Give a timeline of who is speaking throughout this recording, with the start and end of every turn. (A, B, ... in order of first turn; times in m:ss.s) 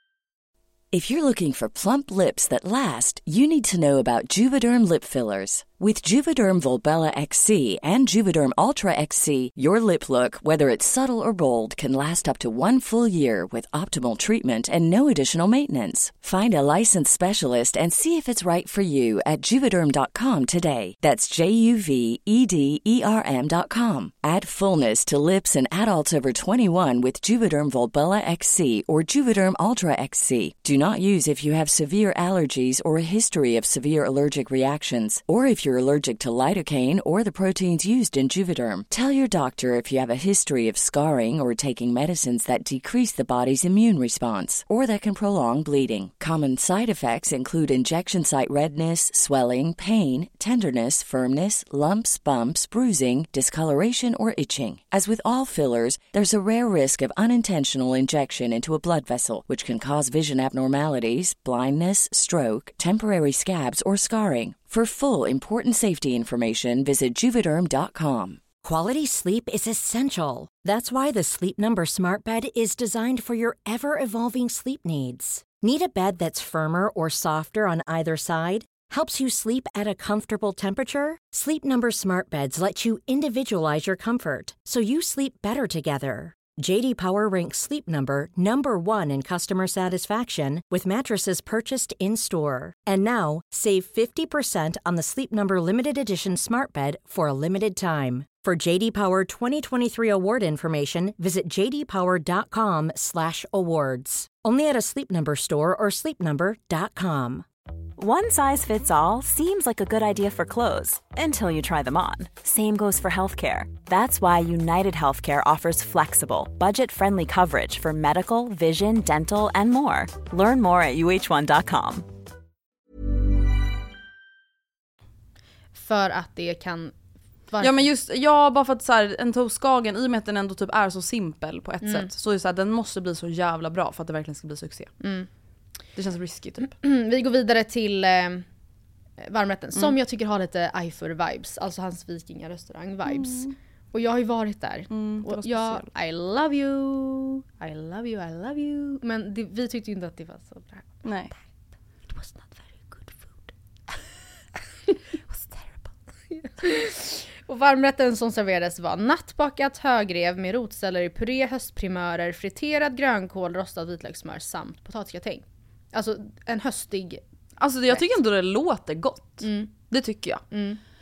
0:00.9-1:08.4 A
1:08.6-1:47.4 B
1:48.0-2:02.1 C
2:05.7-2:06.9 D
2:07.5-2:07.8 D
2:07.6-2:14.9 E
2:11.8-2:12.1 D
2:15.0-2:15.3 D
2:16.0-2:16.7 E
2:16.6-2:18.4 D
2:19.2-2:31.4 D
2:23.0-2:23.5 E
2:24.9-2:25.9 E
2:31.0-2:31.3 E
2:32.1-2:33.5 D
2:35.3-2:35.8 E
2:36.3-2:47.2 D
2:47.6-2:50.4 E
2:49.4-2:49.7 D
2:50.5-2:50.8 D